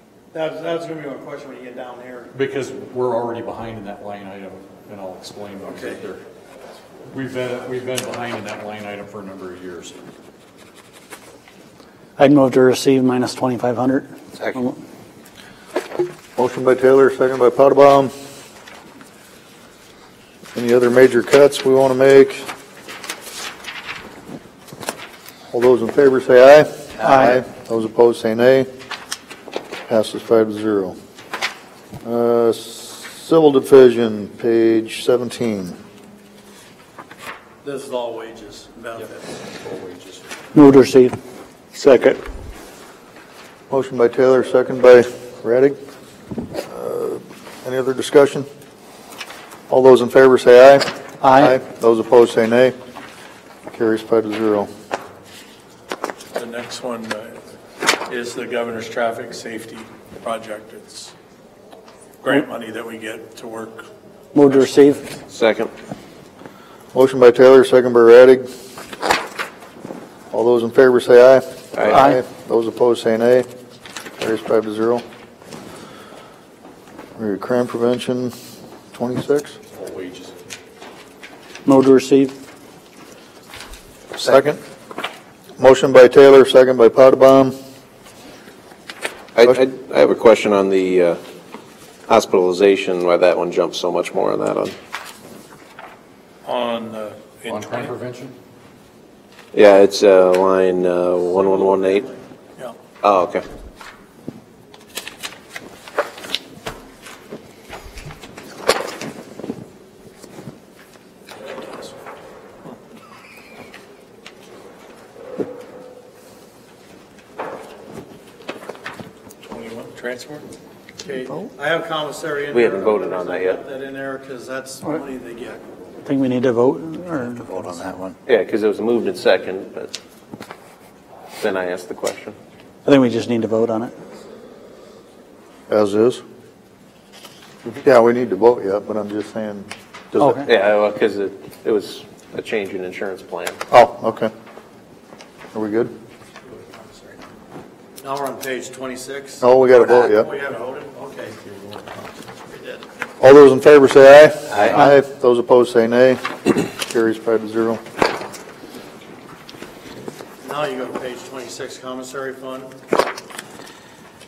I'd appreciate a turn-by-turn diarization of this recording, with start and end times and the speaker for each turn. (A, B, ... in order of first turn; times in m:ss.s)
0:00.3-0:02.4 A
0:02.3-0:06.2 B
0:05.7-0:06.0 A
0:07.1-0:10.0 B
0:12.2-0:14.7 C
0:16.4-0:18.1 D
0:20.6-0:22.4 D
0:25.5-0:28.7 D
0:27.0-0:27.4 C
0:29.9-0:31.0 D
0:32.0-0:35.8 D
0:37.6-0:39.3 A
0:39.7-0:40.2 B
0:40.5-0:41.2 C
0:41.7-0:42.2 C
0:43.7-0:45.8 D
0:46.7-0:48.4 D
0:49.7-0:52.7 D
0:51.2-0:51.6 C
0:53.7-0:54.7 D
0:56.3-0:57.4 E
0:58.1-1:01.1 E
1:02.2-1:03.9 E
1:04.3-1:05.0 C
1:04.4-1:05.0 E
1:05.3-1:05.7 F
1:06.9-1:08.5 D
1:10.3-1:13.4 D
1:11.8-1:12.0 F
1:11.9-1:12.2 C
1:14.2-1:15.0 D
1:17.2-1:18.3 D
1:18.9-1:19.6 D
1:19.7-1:20.3 B
1:21.7-1:22.3 C
1:24.2-1:24.6 D
1:25.6-1:27.6 D
1:29.3-1:31.2 F
1:32.1-1:34.8 F
1:36.4-1:37.9 E
1:37.5-1:38.3 B
1:39.5-1:42.0 F
1:41.3-1:42.2 A
1:43.0-1:43.4 F
1:59.4-2:00.4 E
2:01.0-2:05.6 A
2:02.5-2:03.6 F
2:06.0-2:08.1 C
2:08.3-2:10.0 F
2:11.3-2:12.4 F
2:12.8-2:13.9 C
2:15.7-2:16.2 D
2:17.8-2:19.7 D
2:20.2-2:20.5 C
2:20.2-2:23.6 F
2:23.7-2:24.3 D
2:25.5-2:25.9 D
2:26.7-2:27.1 A
2:28.0-2:32.9 A
2:29.4-2:30.3 D
2:33.2-2:37.8 D
2:34.5-2:34.8 F
2:40.4-2:42.7 A